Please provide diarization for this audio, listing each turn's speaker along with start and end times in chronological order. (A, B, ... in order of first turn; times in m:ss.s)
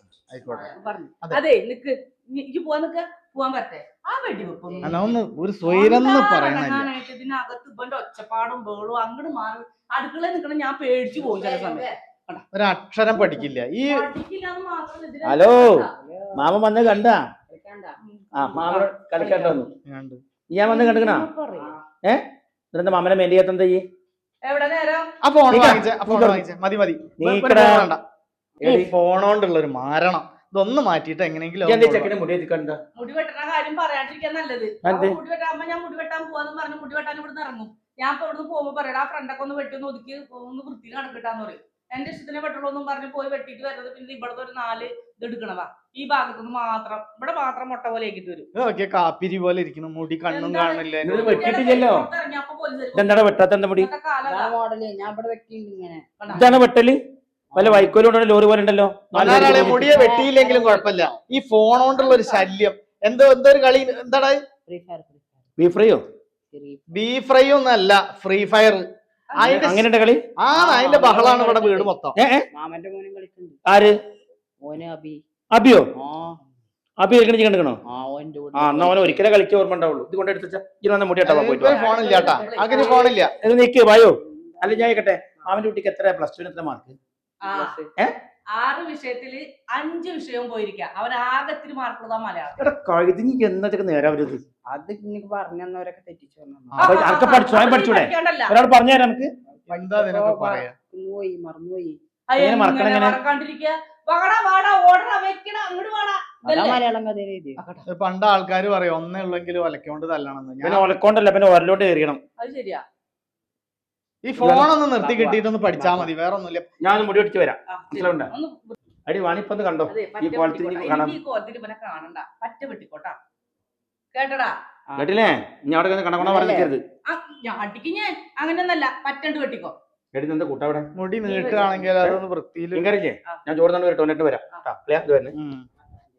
0:00.3-0:01.4 A
0:00.6-0:12.4 B
0:04.7-0:05.0 C
0:04.8-0:06.9 A
0:11.2-0:11.8 C
0:12.5-0:14.0 A
0:13.9-0:15.9 B
0:15.2-0:17.2 D
0:15.9-0:16.5 C
0:17.5-0:18.0 C
0:18.0-0:19.6 B
0:18.3-0:19.7 D
0:19.9-0:20.2 A
0:20.5-0:21.3 D
0:20.6-0:21.8 B
0:21.5-0:21.8 C
0:22.0-0:23.8 D
0:24.4-0:25.1 B
0:25.2-0:28.0 A
0:25.5-0:26.4 D
0:27.2-0:27.9 D
0:28.6-0:28.9 D
0:28.6-0:32.1 A
0:31.6-0:32.8 D
0:33.0-0:48.5 B
0:34.8-0:35.2 D
0:48.5-0:51.6 A
0:50.3-0:54.6 B
0:51.0-0:52.1 D
0:53.0-0:53.9 D
0:54.2-0:56.6 C
0:56.2-0:56.6 B
0:56.3-0:57.0 D
0:57.5-0:58.0 C
0:57.5-1:00.0 D
0:59.2-1:04.4 A
0:59.2-1:01.1 C
1:01.9-1:02.5 B
1:04.7-1:05.5 C
1:05.6-1:06.0 D
1:06.5-1:06.8 C
1:06.9-1:08.8 A
1:09.4-1:09.7 B
1:09.4-1:09.9 A
1:09.4-1:10.2 D
1:10.4-1:12.2 A
1:10.5-1:12.0 C
1:12.2-1:12.5 D
1:12.5-1:13.6 C
1:13.7-1:13.9 D
1:14.6-1:15.2 C
1:15.5-1:15.9 D
1:16.0-1:16.4 C
1:17.0-1:17.8 D
1:17.9-1:19.3 C
1:18.5-1:21.9 D
1:21.2-1:23.3 A
1:21.6-1:23.2 B
1:22.7-1:23.0 C
1:23.4-1:27.0 D
1:24.3-1:25.6 C
1:27.4-1:27.8 B
1:27.4-1:27.9 C
1:28.5-1:32.7 B
1:32.6-1:34.4 D
1:34.7-1:37.0 C
1:36.7-1:37.1 A
1:36.8-1:39.3 D
1:36.8-1:38.5 B
1:39.5-1:42.0 C
1:39.7-1:40.7 A
1:42.3-1:46.8 B
1:42.4-1:43.2 D
1:46.5-1:47.8 C
1:47.9-1:50.9 A
1:50.6-1:52.2 D
1:52.4-1:52.8 B
1:54.2-1:56.7 A
1:54.4-1:56.1 D
1:56.8-1:58.3 D
1:57.7-1:58.8 B
1:59.1-2:01.2 D
1:59.9-2:03.2 B
2:04.1-2:04.6 B
2:04.9-2:05.2 C
2:05.0-2:06.8 D
2:06.2-2:06.7 C
2:07.1-2:09.7 B
2:10.1-2:10.9 D
2:11.0-2:12.9 A
2:11.3-2:11.8 B
2:12.7-2:15.3 D
2:15.3-2:15.7 A